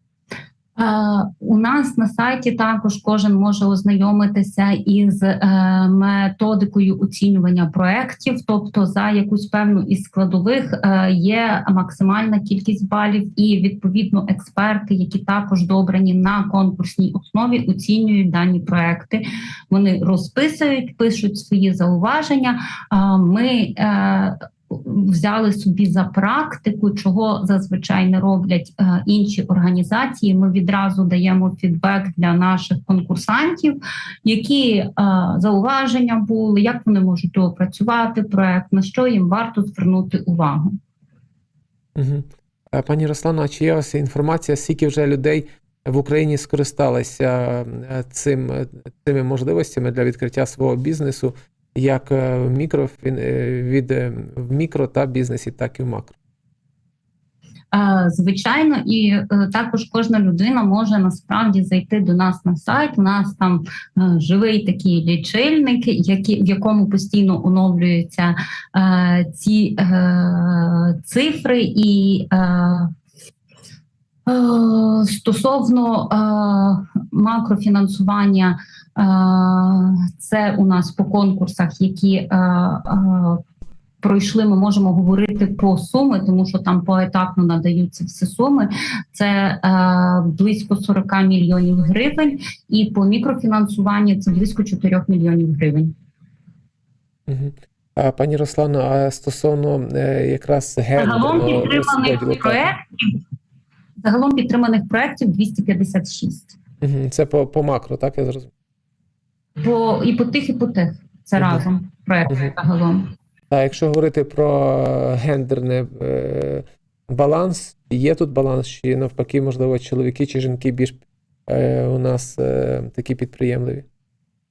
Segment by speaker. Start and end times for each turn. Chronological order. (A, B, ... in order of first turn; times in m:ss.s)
0:00.8-0:40.7 A
0:42.0-0:56.2 B
0:57.7-1:12.9 A
1:14.3-1:23.4 A
1:24.0-1:35.9 A
1:37.3-1:42.6 B
1:41.0-1:43.2 A
1:44.0-1:46.6 A
1:46.8-1:48.5 B
1:49.6-1:53.0 A
1:53.5-2:03.9 B